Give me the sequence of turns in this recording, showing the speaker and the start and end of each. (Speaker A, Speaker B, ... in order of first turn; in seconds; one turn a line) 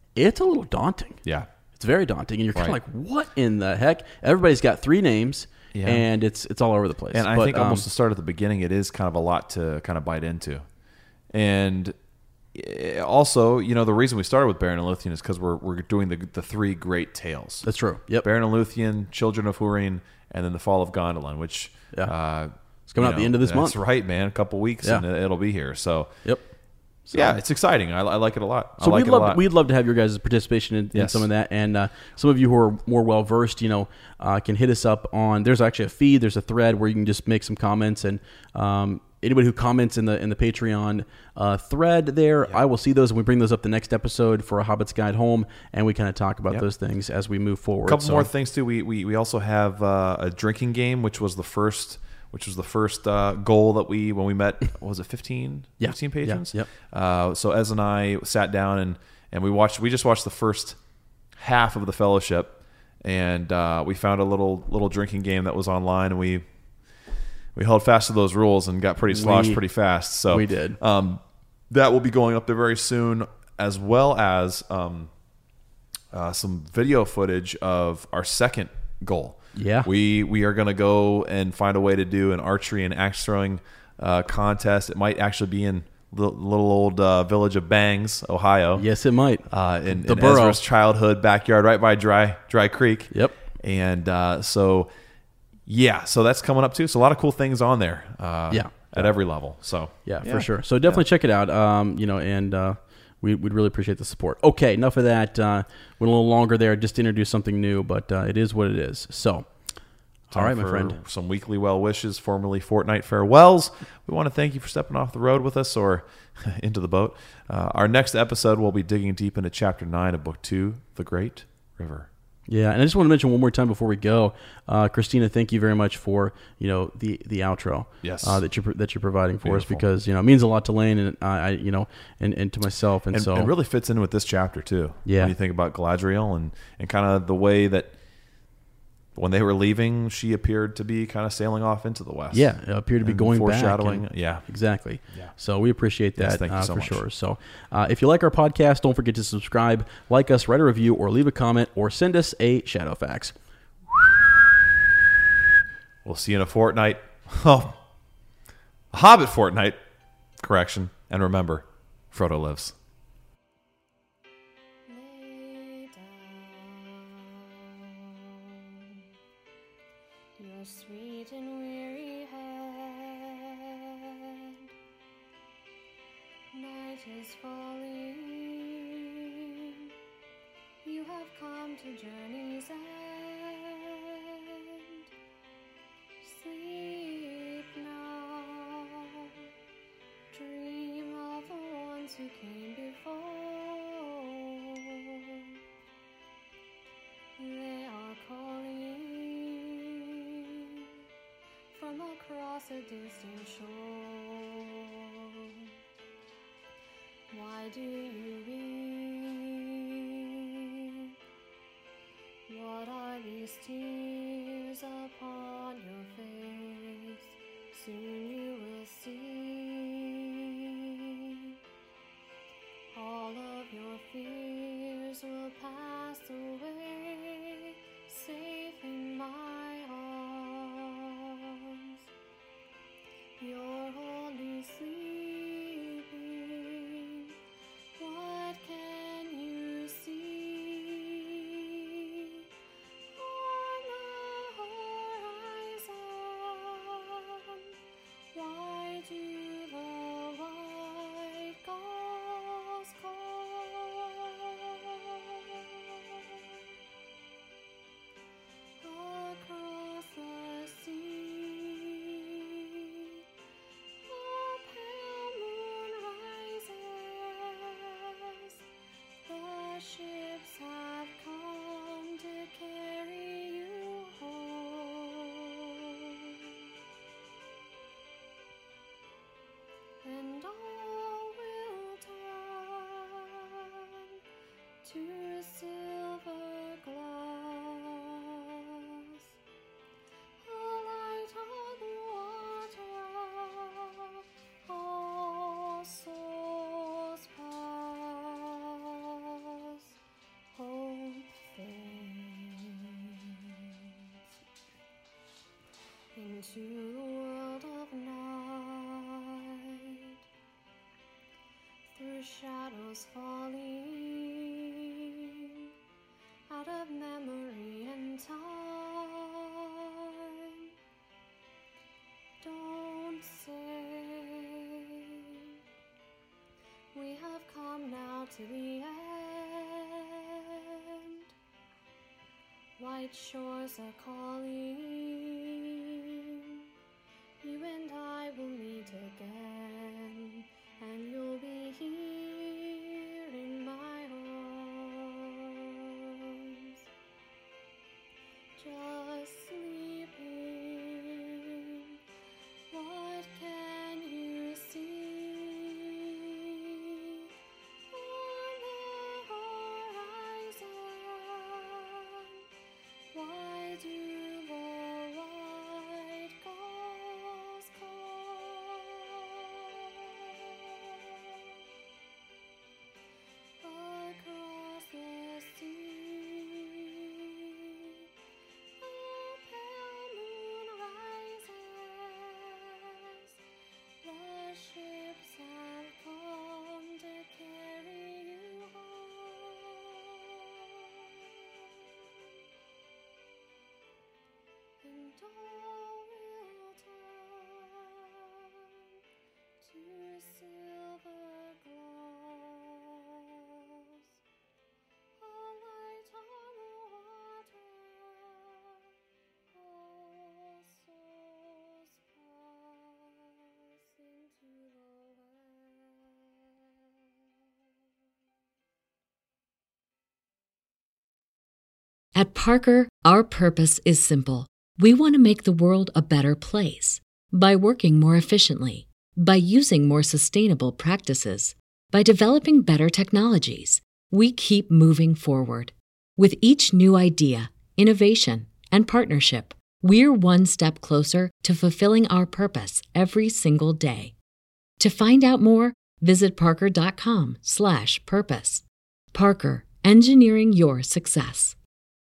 Speaker A: 0.2-1.2
Speaker A: 1.7-7.8
Speaker B: 5.7-6.0
Speaker B: 7.1-10.7
Speaker B: 11.3-11.9
Speaker B: 12.5-17.7
Speaker A: 17.6-18.3
Speaker B: 18.2-26.1
Speaker A: 22.9-23.8
Speaker A: 27.1-27.4
Speaker B: 27.1-29.4
Speaker A: 28.8-48.3
Speaker B: 30.9-31.3
Speaker B: 47.8-60.8
Speaker A: 55.8-56.7
Speaker B: 61.4-66.4
Speaker B: 67.5-75.1
Speaker A: 69.1-69.6
Speaker A: 70.3-70.8
Speaker B: 76.1-88.8
Speaker A: 79.6-79.9
Speaker A: 88.8-90.6
Speaker B: 89.5-94.9
Speaker A: 93.1-93.4
Speaker B: 95.7-101.0
Speaker A: 98.5-99.1
Speaker A: 100.0-109.5
Speaker A: 110.3-111.0
Speaker B: 110.3-122.1
Speaker A: 122.5-133.5
Speaker B: 128.0-128.4
Speaker B: 129.4-129.8
Speaker B: 133.1-137.9
Speaker A: 135.1-135.3
Speaker B: 139.2-144.4
Speaker A: 142.3-153.3
Speaker B: 146.2-147.0
Speaker A: 153.9-154.2
Speaker B: 156.1-157.8
Speaker B: 158.9-159.8
Speaker B: 160.4-162.8
Speaker C: 164.9-169.0
Speaker C: 170.4-174.6
Speaker C: 176.5-179.9
Speaker C: 180.8-185.1
Speaker C: 186.2-189.4
Speaker C: 190.3-195.5
Speaker C: 197.4-200.9
Speaker C: 201.7-205.7
Speaker C: 207.3-211.1
Speaker C: 212.5-221.6
Speaker C: 222.9-232.0
Speaker C: 233.4-237.3
Speaker C: 238.0-242.4
Speaker C: 243.1-247.7
Speaker C: 248.3-256.2
Speaker C: 258.8-263.2
Speaker C: 264.1-268.5
Speaker C: 269.2-276.6
Speaker C: 280.0-284.1
Speaker C: 284.8-289.2
Speaker C: 290.4-299.8
Speaker C: 300.5-304.1
Speaker C: 306.1-310.1
Speaker C: 311.9-315.6
Speaker C: 316.5-320.7
Speaker C: 322.4-325.5
Speaker C: 326.9-331.3
Speaker C: 332.8-336.6
Speaker C: 337.4-346.8
Speaker C: 348.6-351.9
Speaker C: 352.7-357.3
Speaker C: 357.9-362.3
Speaker C: 363.1-371.4
Speaker C: 373.6-378.0
Speaker C: 378.8-383.3
Speaker C: 384.0-391.1
Speaker C: 394.8-398.9
Speaker C: 399.6-404.2
Speaker C: 405.2-408.9
Speaker C: 409.5-416.7
Speaker D: 422.1-444.1
Speaker D: 444.8-451.6